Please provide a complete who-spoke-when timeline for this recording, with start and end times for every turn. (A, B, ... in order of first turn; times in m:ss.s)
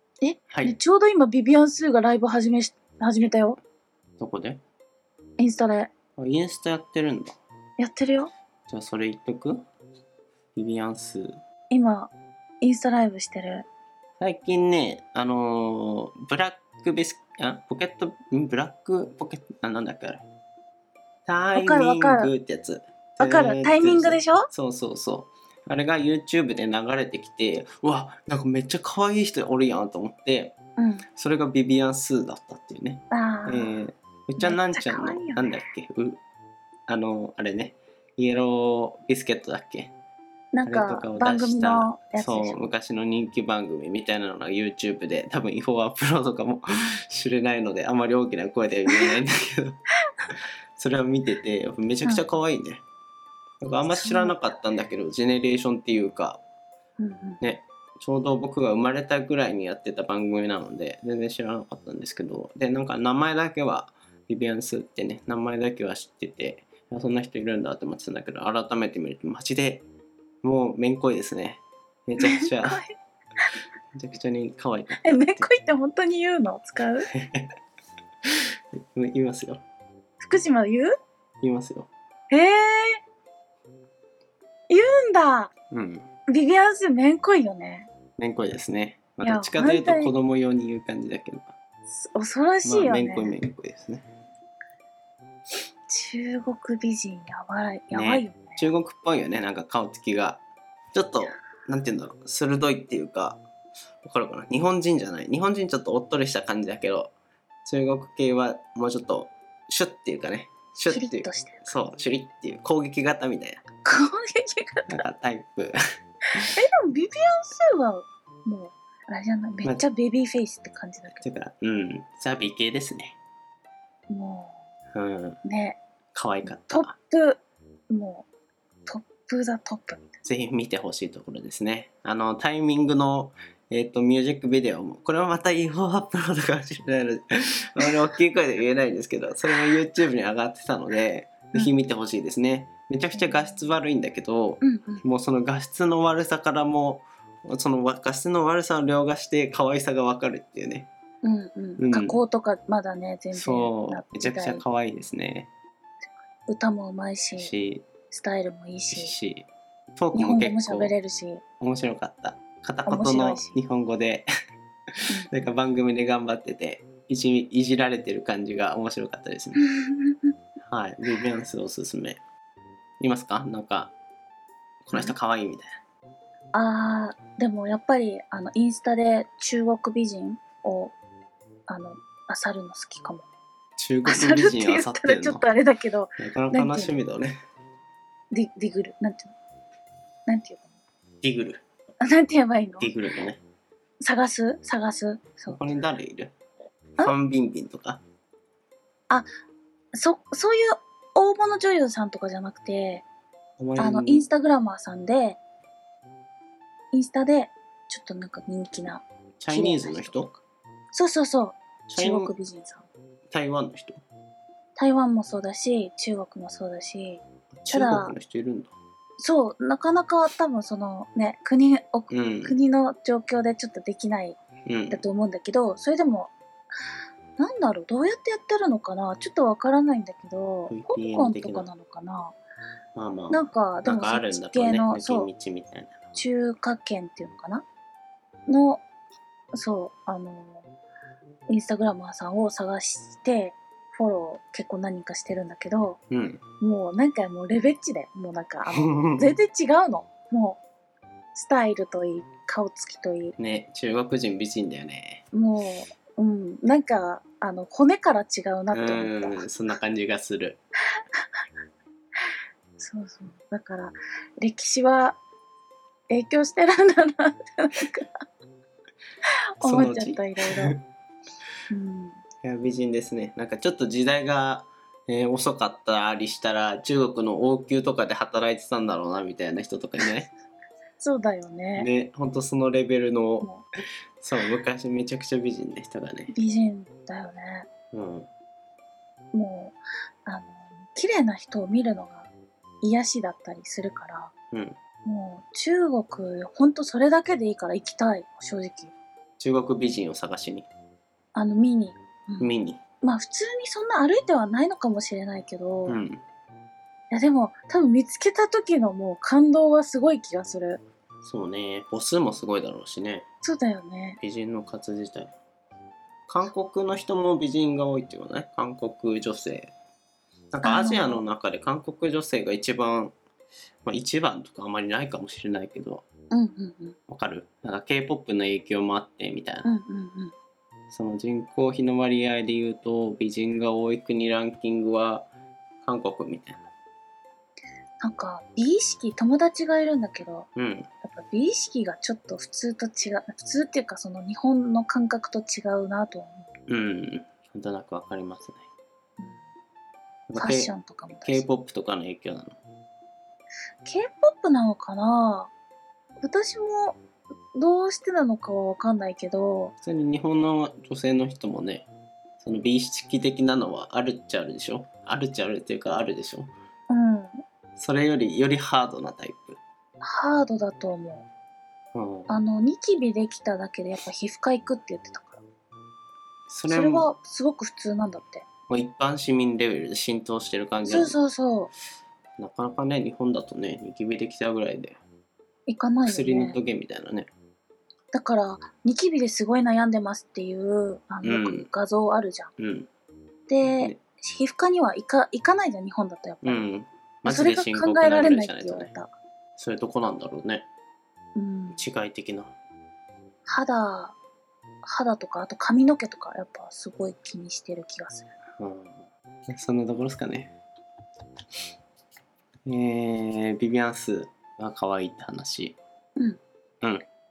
0:00.2-0:03.6 A
0:00.5-0:00.8 B
0:04.2-0:04.6 B
0:05.4-0:05.9 A
0:06.2-0:07.4 B
0:07.8-0:08.3 A
0:08.7-0:09.6 B
0:10.6-0:11.4 B
0:11.7-0:13.7 A
0:14.2-0:20.2 B
0:21.3-0:30.6 B
0:21.6-0:22.3 A
0:23.2-0:24.5 A
0:30.8-0:31.0 A
0:31.2-0:36.2 B
0:33.1-0:33.8 A
0:34.4-0:35.6 A
0:36.9-0:39.9 B
0:40.5-0:42.6 A
0:40.6-0:49.8 B
0:50.8-0:52.8 B
0:53.6-0:56.4 B
0:53.9-0:54.4 A
0:57.0-0:57.4 A
0:57.4-1:09.8 B
1:10.4-1:12.8 B
1:12.2-1:12.9 A
1:13.9-1:15.5 B
1:15.0-1:17.1 A
1:17.1-1:17.5 B
1:18.2-1:19.6 B
1:20.2-1:20.9 A
1:21.4-1:21.9 B
1:22.3-1:23.0 A
1:24.7-1:25.5 A
1:25.7-1:26.0 B
1:26.3-1:27.9 A
1:28.2-1:31.5 B
1:29.2-1:30.1 A
1:31.9-1:33.3 A
1:32.6-1:34.1 B
1:35.9-1:38.7 A
1:37.9-1:40.4 B
1:40.9-1:43.4 B
1:44.0-1:47.1 B
1:47.6-1:53.6 B
1:50.9-1:51.6 A
1:53.8-1:55.0 A
1:54.9-1:55.8 B
1:56.5-2:01.2 A
2:01.2-2:03.2 B
2:04.1-2:04.6 A
2:04.9-2:05.4 B
2:05.4-2:05.8 A
2:06.1-2:06.9 B
2:06.5-2:08.3 A
2:08.9-2:10.1 A
2:10.2-2:30.9 B
2:23.2-2:23.5 A
2:24.6-2:25.0 A
2:31.2-2:34.6 A
2:31.8-2:32.2 B
2:33.3-2:35.5 B
2:36.5-2:37.6 A
2:37.4-2:37.9 B
2:38.1-2:39.1 A
2:38.9-2:41.0 B
2:40.1-2:41.4 A
2:41.6-2:44.3 B
2:42.9-2:43.6 A
2:45.0-2:49.6 B
2:45.1-2:45.5 A
2:49.6-2:50.3 A
2:50.7-2:52.2 B
2:53.0-2:54.0 B
2:54.8-2:55.7 B
2:56.5-3:01.0 A
3:01.7-3:03.3 A
3:03.8-3:05.4 B
3:04.0-3:07.0 A
3:06.2-3:07.4 B
3:08.3-3:09.3 A
3:10.3-3:10.7 A
3:11.2-3:11.6 B
3:12.0-3:12.9 A
3:12.8-3:13.4 B
3:14.0-3:15.6 A
3:15.5-3:16.3 B
3:17.0-3:18.0 B
3:19.9-3:23.0 A
3:23.6-3:24.2 B
3:23.8-3:25.4 A
3:26.9-3:30.3 A
3:29.4-3:30.4 B
3:30.9-3:32.9 A
3:31.9-3:32.3 B
3:33.3-3:34.0 B
3:34.8-3:38.1 A
3:37.6-3:38.7 B
3:39.2-3:46.3 A
3:42.1-3:42.6 B
3:44.7-3:45.1 B
3:47.4-3:52.4 A
3:50.7-3:51.7 B
3:53.0-3:56.1 B
3:53.3-3:55.3 A
3:56.2-3:57.6 A
3:58.5-3:58.8 A
3:59.5-4:00.7 A
4:01.5-4:06.0 A
4:06.1-4:06.4 B
4:06.6-4:10.6 A
4:08.7-4:09.4 B
4:11.3-4:13.4 A
4:13.4-4:15.2 B
4:15.3-4:19.5 A
4:18.7-4:20.6 B
4:22.8-4:25.2 A
4:26.1-4:28.2 A
4:29.6-4:30.8 A
4:29.6-4:30.8 B
4:31.7-4:32.2 A
4:32.4-4:40.3 B
4:41.0-4:41.9 A
4:41.8-4:43.6 B
4:44.2-4:46.3 B
4:46.3-4:47.7 A
4:47.9-4:48.3 B
4:49.3-4:52.3 A
4:52.8-4:54.3 A
4:55.0-4:58.9 A
4:59.4-5:00.7 B
5:01.3-5:02.5 A
5:02.4-5:02.8 B
5:03.0-5:06.0 A
5:05.9-5:06.2 B
5:07.1-5:10.8 A
5:11.2-5:13.3 B
5:13.4-5:14.2 A
5:14.2-5:15.3 B
5:16.3-5:19.7 B
5:20.5-5:23.2 B
5:20.6-5:21.2 A
5:23.8-5:26.0 B
5:26.3-5:27.0 A
5:27.1-5:29.7 B
5:29.6-5:30.3 A
5:30.9-5:35.3 B
5:35.8-5:36.6 B
5:38.0-5:40.5 A
5:40.6-5:40.9 B
5:41.0-5:46.5 A
5:46.7-5:48.6 B
5:50.3-5:50.7 B
5:50.4-5:51.5 A
5:51.2-5:52.6 B
5:53.8-5:55.5 A
5:56.2-5:57.0 A
5:57.6-5:59.8 A
5:59.8-6:01.9 B
6:02.4-6:06.5 B
6:06.9-6:07.4 A
6:07.8-6:09.6 B
6:10.0-6:11.3 A
6:12.0-6:12.4 B
6:12.3-6:15.4 A
6:16.5-6:17.1 B
6:16.7-6:18.4 A
6:18.7-6:21.2 B
6:20.8-6:21.7 A
6:22.4-6:25.0 B
6:25.7-6:26.6 A
6:26.0-6:27.3 B
6:28.1-6:32.5 A
6:31.2-6:31.7 B
6:32.6-6:32.9 B
6:33.5-6:36.7 A
6:36.4-6:38.9 B
6:37.3-6:39.1 A
6:39.6-6:40.7 B
6:41.4-6:41.8 A
6:41.7-6:42.5 B
6:43.5-6:44.2 A
6:44.8-6:48.3 A
6:48.6-6:50.5 B
6:52.7-6:55.8 B